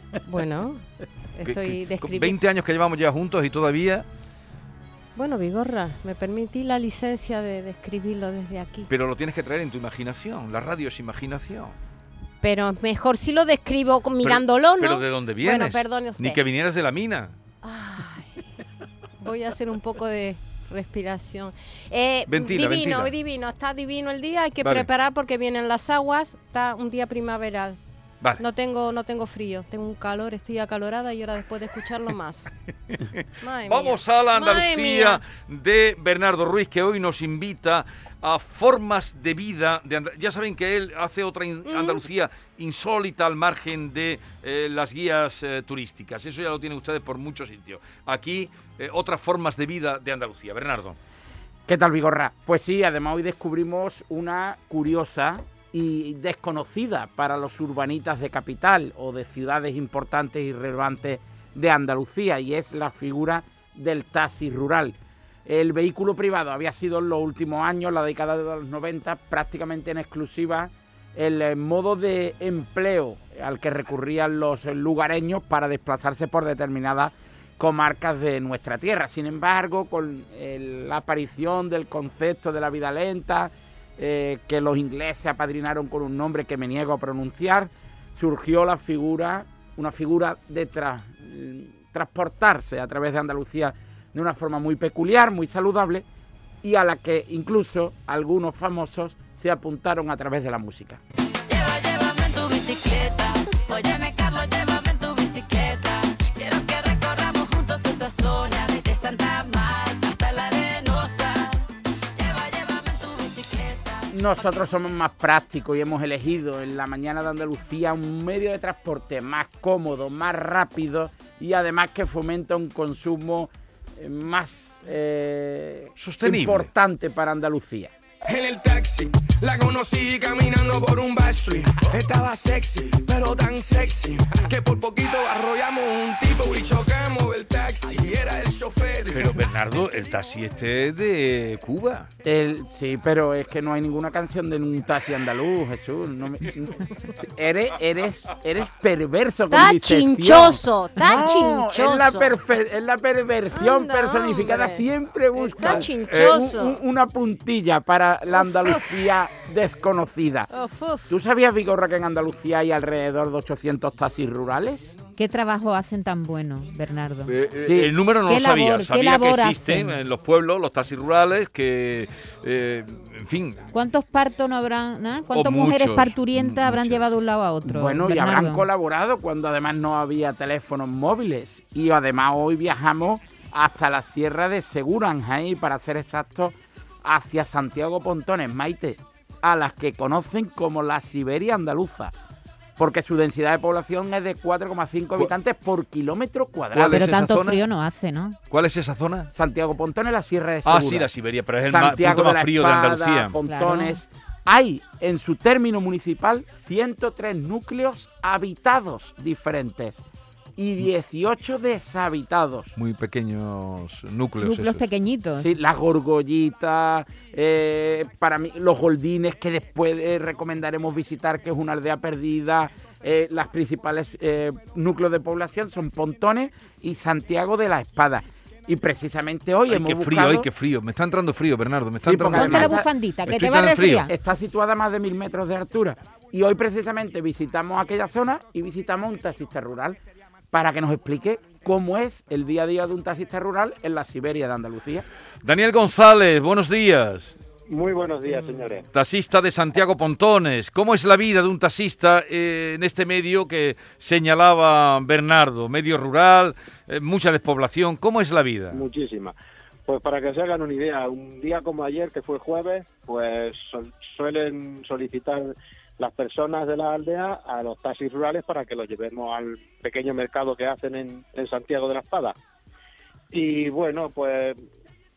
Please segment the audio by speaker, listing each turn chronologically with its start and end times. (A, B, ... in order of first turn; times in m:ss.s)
0:00.2-0:00.8 A
0:01.4-0:02.4 A
0:01.4-0:04.1 B
0:05.2-0:08.9 A
0:08.9-0:11.8 B
0:12.4-0:16.4 A
0:14.2-0:17.4 B
0:17.6-0:18.4 A
0:19.2-0:27.8 A
0:22.3-0:23.2 B
0:24.6-0:24.9 B
0:28.4-0:32.5 A
0:32.9-0:51.0 B
0:33.4-0:35.2 A
0:41.6-0:42.0 A
0:51.7-1:36.1 C
1:36.6-1:41.0 C
1:41.8-1:44.6 D
1:45.2-1:50.5 D
1:53.4-1:53.8 D
1:54.1-2:07.9 C
2:06.0-2:06.7 B
2:08.2-2:19.5 E
2:19.1-2:22.1 B
2:22.2-2:40.5 C
2:29.5-2:32.4 A
2:33.5-2:36.8 A
2:38.3-2:39.1 A
2:40.5-2:41.2 A
2:41.1-2:44.9 C
2:45.2-2:47.3 F
2:47.3-2:53.7 B
2:47.6-2:48.0 C
2:48.2-2:50.0 F
2:53.7-2:58.7 F
2:55.3-2:57.1 B
2:57.6-3:12.1 C
3:12.8-3:17.1 C
3:16.7-3:17.6 B
3:16.9-3:18.4 F
3:18.5-3:19.3 B
3:19.3-3:21.1 C
3:20.6-3:23.4 B
3:21.7-3:30.0 C
3:23.4-3:24.0 F
3:30.6-3:32.7 C
3:32.8-3:34.8 B
3:34.4-3:35.6 F
3:35.4-3:50.5 C
3:49.7-3:54.1 B
3:52.0-3:52.9 C
3:52.3-3:54.1 F
3:54.1-4:00.0 C
4:00.5-4:05.1 C
4:05.4-4:07.4 B
4:07.7-4:08.9 G
4:08.9-4:18.8 B
4:18.7-4:19.4 G
4:19.9-4:32.4 G
4:33.3-4:34.6 G